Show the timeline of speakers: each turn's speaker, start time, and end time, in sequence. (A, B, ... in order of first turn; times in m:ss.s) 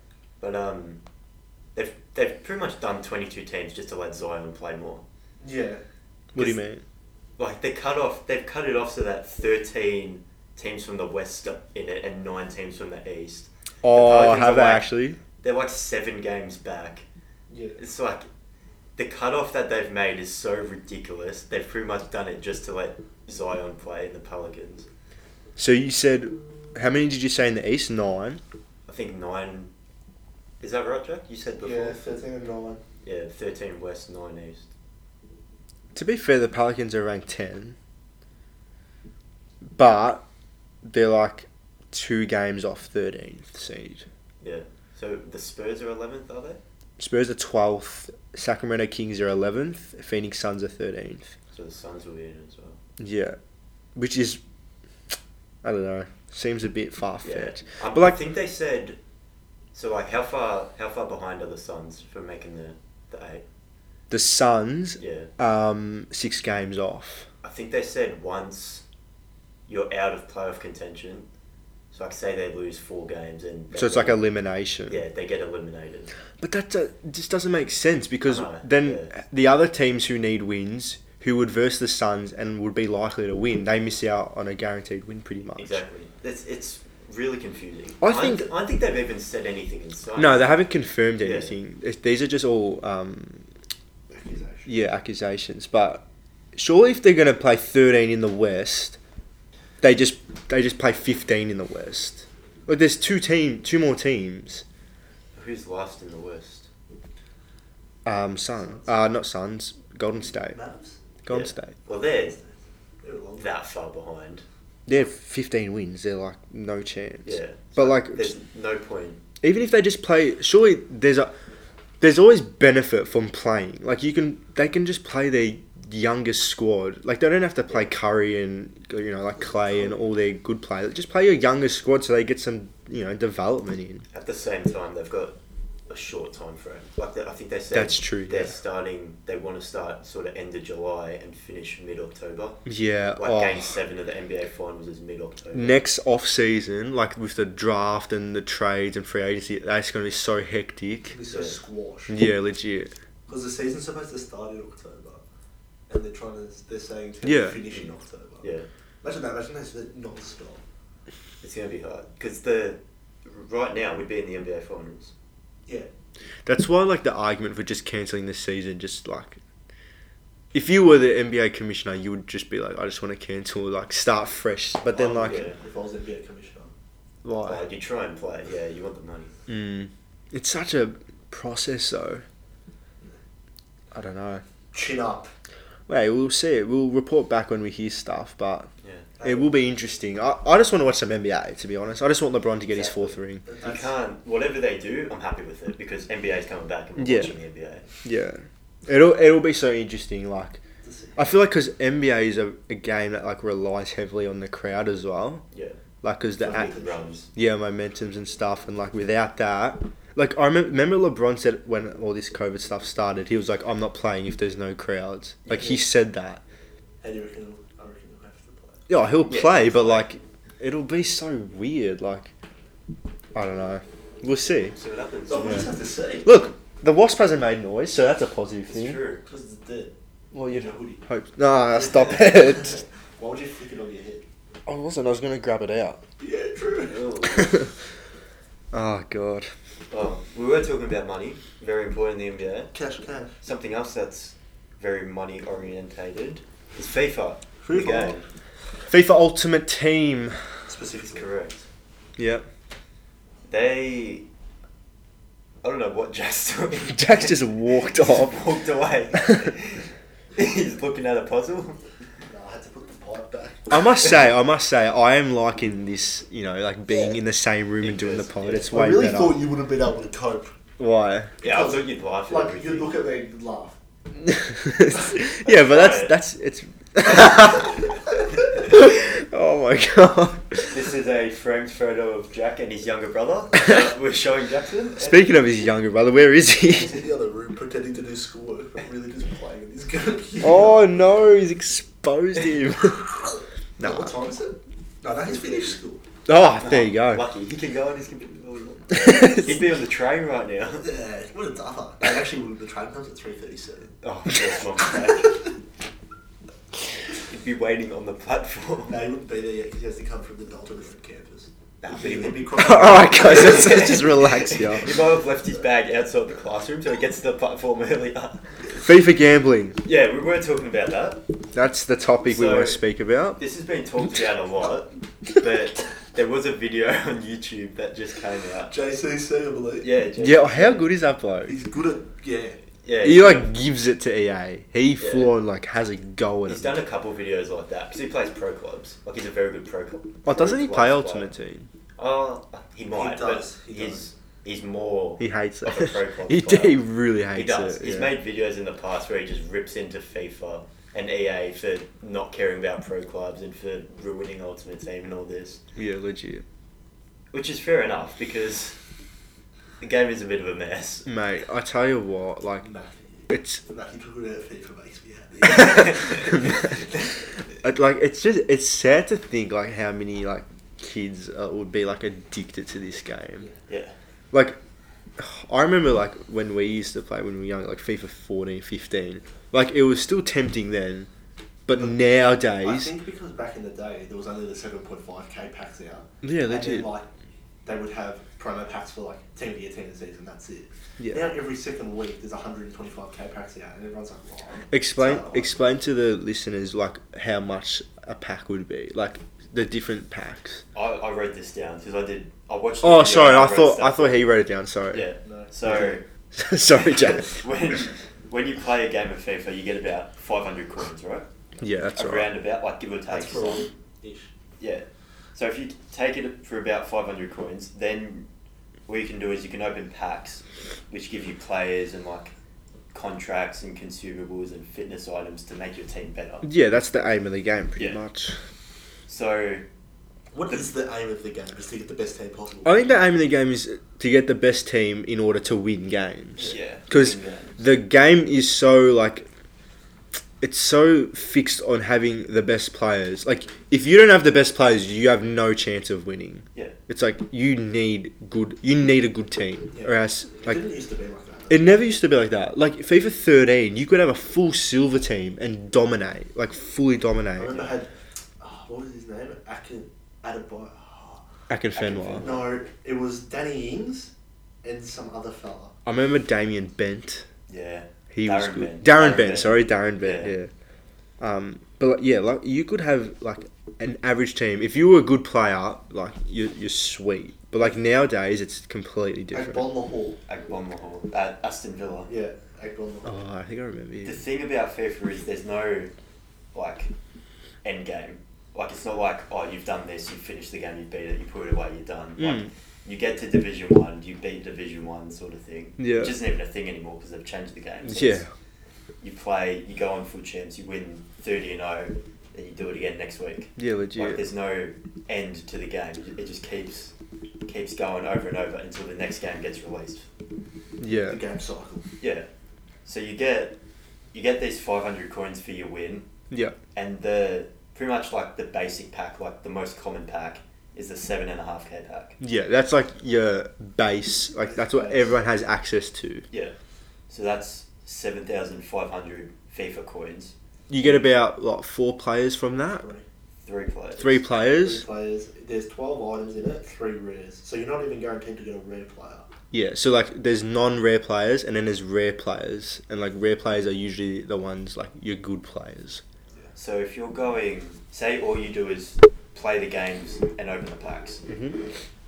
0:00.4-0:01.0 A
0:01.7-0:05.0 A
0:05.4-0:05.8 B
0:06.4-0:06.8 C
0:07.4-0:14.9 A
0:13.8-0:15.2 C
0:15.4-0:17.0 A
0:17.5-0:17.8 B
0:17.8-0:18.3 A
0:19.0-0:24.9 A
0:25.6-0:28.4 C
0:28.9-0:29.7 A
0:30.6-0:32.0 A
0:31.6-0:32.8 B
0:33.0-0:34.7 A
0:35.9-0:37.8 C
0:39.7-0:40.2 C
0:40.8-0:44.0 C
0:44.4-0:46.6 A
0:47.0-0:51.3 C
0:51.5-0:52.8 A
0:53.0-0:53.4 C
0:54.0-0:54.4 C
0:55.6-0:58.2 C
0:57.2-0:59.0 A
0:59.7-1:03.4 A
1:04.1-1:07.3 C
1:05.0-1:05.3 A
1:07.4-1:08.8 A
1:09.7-1:11.3 A
1:11.9-1:14.2 A
1:13.7-1:15.0 C
1:14.9-1:16.1 A
1:16.4-1:25.8 C
1:18.2-1:19.2 A
1:25.6-1:30.6 A
1:28.0-1:28.5 C
1:30.2-1:33.4 C
1:31.2-1:31.5 A
1:34.1-1:34.7 B
1:34.6-1:36.0 C
1:36.5-1:39.0 C
1:39.8-1:44.6 C
1:45.4-1:46.7 A
1:48.0-1:50.6 C
1:50.5-1:51.0 B
1:51.2-1:51.7 C
1:51.3-1:52.4 A
1:53.0-1:53.5 B
1:53.4-1:54.4 A
1:54.9-1:58.3 C
1:57.2-1:59.2 A
1:59.4-2:01.3 C
2:02.0-2:14.0 C
2:09.6-2:09.9 B
2:14.1-2:15.4 A
2:15.9-2:22.6 A
2:17.7-2:18.5 C
2:22.6-2:23.8 C
2:23.2-2:25.8 A
2:25.5-2:31.2 C
2:31.1-2:32.2 B
2:31.3-2:31.6 A
2:32.1-2:32.9 C
2:33.3-2:35.2 B
2:35.9-2:38.5 B
2:37.2-2:37.6 C
2:38.4-2:38.7 A
2:39.0-2:40.6 B
2:41.4-2:45.1 A
2:46.4-2:49.4 C
2:50.5-2:55.4 C
2:54.9-2:56.7 B
2:55.2-2:55.6 A
2:57.2-2:57.6 C
2:57.4-2:59.3 A
2:59.5-3:02.2 C
3:03.9-3:04.4 C
3:04.7-3:05.3 B
3:05.9-3:08.7 C
3:08.8-3:09.1 A
3:09.2-3:09.5 B
3:09.2-3:13.4 C
3:12.7-3:17.8 A
3:13.4-3:13.9 B
3:17.0-3:17.4 C
3:18.0-3:20.6 C
3:20.8-3:21.2 B
3:21.2-3:25.4 C
3:25.5-3:25.8 A
3:26.0-3:26.8 C
3:26.4-3:27.2 B
3:26.4-3:27.3 A
3:27.3-3:36.4 C
3:35.4-3:35.8 A
3:37.0-3:38.8 B
3:38.9-3:42.3 C
3:39.2-3:40.1 A
3:43.4-3:44.8 C
3:44.7-3:45.7 A
3:45.3-3:46.4 B
3:45.4-3:45.7 C
3:46.2-3:49.0 C
3:48.7-3:49.2 A
3:49.2-3:49.9 B
3:50.3-3:52.8 C
3:50.5-3:51.0 B
3:51.8-3:54.2 B
3:54.6-3:56.0 C
3:56.2-3:57.1 B
3:56.8-3:57.6 A
3:57.3-3:57.7 C
3:58.7-3:59.5 C
3:59.9-4:02.7 A
4:02.7-4:03.4 B
4:03.4-4:08.2 A
4:07.6-4:08.2 B
4:08.9-4:10.4 C
4:10.7-4:11.3 B
4:10.9-4:11.6 A
4:12.2-4:12.4 C
4:13.5-4:14.2 A
4:15.6-4:21.8 A
4:16.9-4:18.4 C
4:19.2-4:19.5 C
4:22.3-4:23.8 B
4:23.7-4:29.4 C
4:27.8-4:28.8 A
4:28.7-4:30.5 B
4:30.8-4:31.3 C
4:31.4-4:33.0 A
4:31.4-4:33.8 B
4:34.2-4:40.8 C
4:35.4-4:36.2 A
4:40.7-4:45.4 A
4:43.6-4:43.8 C
4:45.0-4:47.0 C
4:46.8-4:51.0 B
4:50.4-4:53.0 C
4:52.9-4:56.0 B
4:53.8-4:54.1 C
4:55.3-4:55.8 A
4:56.2-4:57.2 C
4:56.6-5:00.9 A
4:58.9-4:59.5 C
5:00.8-5:03.9 B
5:04.0-5:05.4 A
5:04.7-5:05.5 B
5:07.2-5:09.0 A
5:08.9-5:13.9 B
5:11.8-5:18.5 A
5:12.6-5:14.9 C
5:18.8-5:19.8 C
5:19.8-5:21.2 A
5:21.5-5:23.4 C
5:22.2-5:22.8 A
5:23.4-5:28.7 A
5:28.7-5:29.9 B
5:29.8-5:30.9 A
5:30.2-5:31.6 C
5:31.4-5:32.6 B
5:32.8-5:33.5 A
5:33.0-5:36.8 C
5:35.0-5:35.3 A
5:36.5-5:41.3 A
5:40.2-5:41.7 C
5:42.0-5:46.8 A
5:42.9-5:44.1 B
5:45.2-5:48.2 C
5:47.3-5:55.6 A
5:55.8-5:56.4 C
5:57.3-5:58.8 A
5:59.8-6:01.1 A
6:01.0-6:02.7 C
6:02.6-6:07.0 B
6:03.3-6:03.6 C
6:05.5-6:06.4 A
6:06.1-6:06.8 C
6:07.6-6:13.5 C
6:13.7-6:13.9 A
6:14.3-6:14.6 C
6:15.2-6:21.1 C
6:21.6-6:22.9 C
6:22.6-6:27.1 B
6:26.2-6:26.9 C
6:27.6-6:35.5 B
6:31.0-6:31.3 C
6:34.7-6:40.6 C
6:40.7-6:44.3 A
6:42.8-6:45.1 C
6:44.9-6:46.0 A
6:45.2-6:45.9 B
6:45.6-6:47.4 C
6:46.7-6:51.3 A
6:51.6-6:52.3 C
6:52.0-6:53.7 A
6:53.1-6:54.3 B
6:54.6-6:58.3 A
6:58.9-7:02.3 A
7:02.9-7:06.5 A
7:06.4-7:08.4 C
7:09.1-7:09.6 A
7:10.3-7:13.0 B
7:12.6-7:19.3 C
7:16.4-7:17.6 A
7:20.4-7:30.6 C
7:29.7-7:31.7 B
7:31.5-7:37.6 C
7:37.4-7:41.2 B
7:41.5-7:42.4 C
7:41.8-7:44.1 B
7:41.9-7:42.4 A
7:44.6-7:45.7 B
7:45.9-7:47.3 C
7:47.5-7:50.4 A
7:48.1-7:50.5 C
7:51.2-7:59.7 C
7:59.3-8:00.2 B
8:00.3-8:02.1 A
8:02.1-8:03.1 B
8:03.0-8:04.2 C
8:04.0-8:05.9 A
8:06.5-8:06.9 A
8:07.6-8:18.2 A
8:12.2-8:12.5 C
8:15.8-8:16.2 C
8:17.8-8:18.3 C
8:19.0-8:26.9 A
8:23.6-8:24.2 C
8:27.4-8:30.1 A
8:30.8-8:31.2 C
8:31.0-8:31.8 B
8:32.0-8:32.3 A
8:32.8-8:33.6 A
8:34.1-8:36.0 A
8:36.3-8:36.6 C
8:36.7-8:42.2 A
8:42.2-8:46.2 C
8:44.4-8:45.2 B
8:47.1-8:50.3 A
8:50.7-8:52.9 C
8:52.8-8:53.0 B
8:53.4-8:54.2 A
8:54.0-8:54.8 C
8:54.5-8:59.3 B
8:59.5-9:06.0 C
9:06.6-9:11.2 A
9:11.2-9:11.6 C